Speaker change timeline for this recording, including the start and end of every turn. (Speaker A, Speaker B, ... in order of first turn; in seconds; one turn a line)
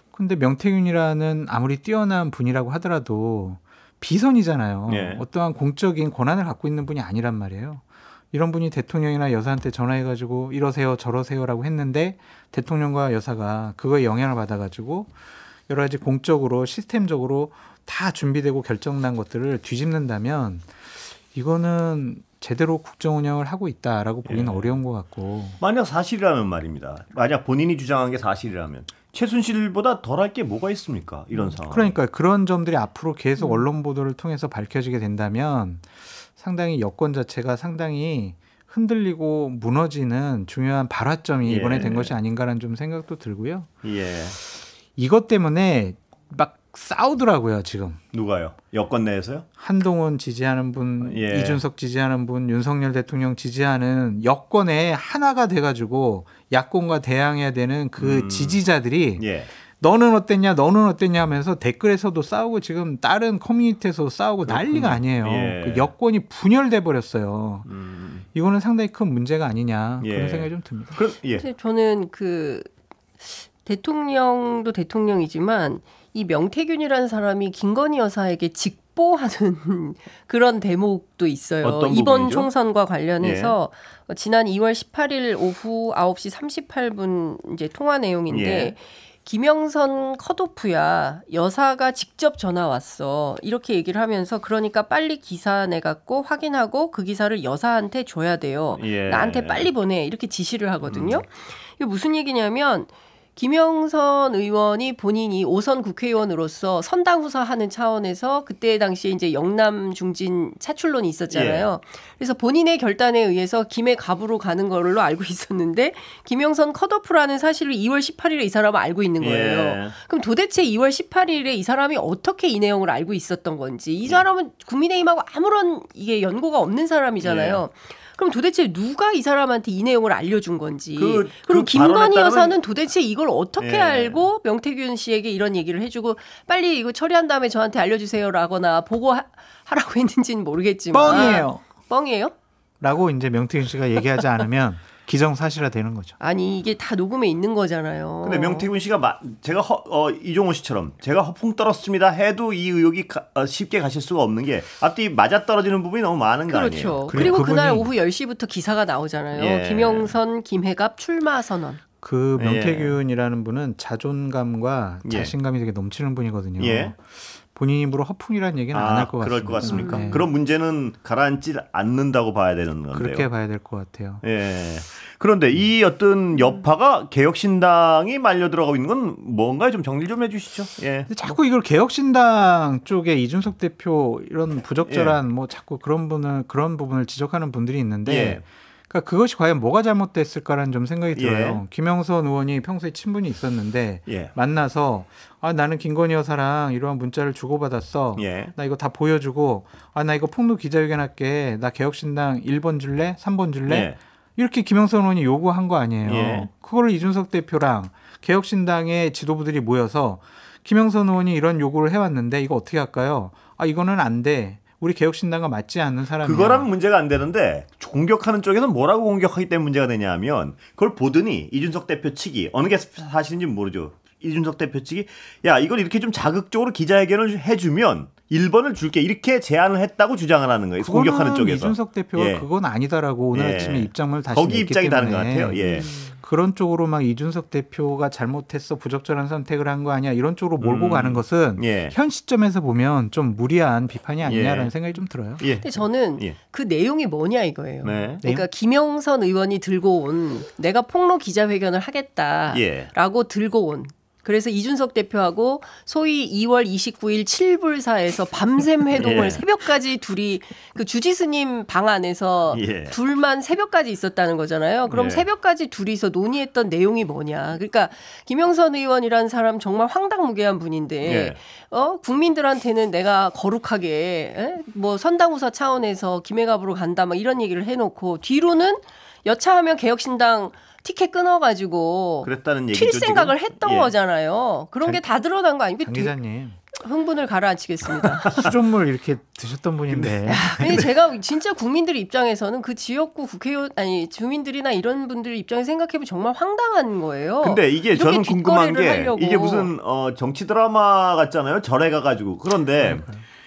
Speaker A: 0.1-15.1
Speaker B: 4.9-5.2
Speaker A: 15.7-20.7
Speaker A: 21.3-25.6
Speaker B: 24.2-24.7
Speaker B: 25.6-31.9
Speaker A: 31.6-43.7
Speaker C: 33.4-33.6
Speaker B: 41.4-42.1
Speaker B: 43.8-44.4
Speaker A: 44.9-48.0
Speaker B: 48.1-49.5
Speaker A: 49.6-59.2
Speaker B: 51.0-51.6
Speaker B: 58.0-58.6
Speaker B: 59.2-59.5
Speaker A: 59.8-67.7
Speaker B: 64.4-65.9
Speaker B: 67.7-68.2
Speaker A: 68.3-71.0
Speaker B: 70.0-71.4
Speaker C: 71.4-142.3
Speaker B: 81.6-82.5
Speaker B: 83.2-83.5
Speaker B: 88.3-88.7
Speaker B: 98.7-99.7
Speaker B: 100.9-101.2
Speaker B: 111.3-111.7
Speaker B: 119.2-119.9
Speaker B: 127.2-127.6
Speaker B: 131.0-132.6
Speaker B: 133.6-134.3
Speaker A: 140.9-141.6
Speaker B: 141.1-141.4
Speaker A: 142.8-146.1
Speaker C: 146.2-148.7
Speaker B: 148.2-157.4
Speaker C: 156.5-161.8
Speaker A: 157.1-157.9
Speaker B: 159.3-160.2
Speaker A: 162.0-170.3
Speaker B: 162.3-163.0
Speaker B: 165.0-165.3
Speaker B: 166.6-166.9
Speaker B: 168.7-173.3
Speaker C: 169.6-170.2
Speaker A: 172.9-174.2
Speaker B: 174.2-181.1
Speaker A: 181.1-216.7
Speaker B: 184.8-185.2
Speaker B: 188.0-188.4
Speaker B: 191.1-191.6
Speaker B: 194.1-194.3
Speaker B: 198.2-198.5
Speaker B: 203.7-204.0
Speaker B: 206.0-206.5
Speaker B: 216.2-232.4
Speaker A: 230.8-245.4
Speaker B: 233.3-235.9
Speaker C: 235.6-236.1
Speaker B: 240.6-241.9
Speaker B: 244.2-244.7
Speaker B: 245.4-245.7
Speaker C: 245.6-286.1
Speaker B: 247.8-248.2
Speaker B: 252.5-252.9
Speaker B: 259.0-259.4
Speaker B: 262.5-262.9
Speaker B: 264.9-265.3
Speaker B: 271.0-271.4
Speaker B: 282.2-283.9
Speaker A: 285.8-286.6
Speaker C: 286.7-288.4
Speaker A: 288.3-290.9
Speaker B: 289.9-290.8
Speaker C: 290.2-299.7
Speaker B: 297.4-303.1
Speaker A: 302.8-303.2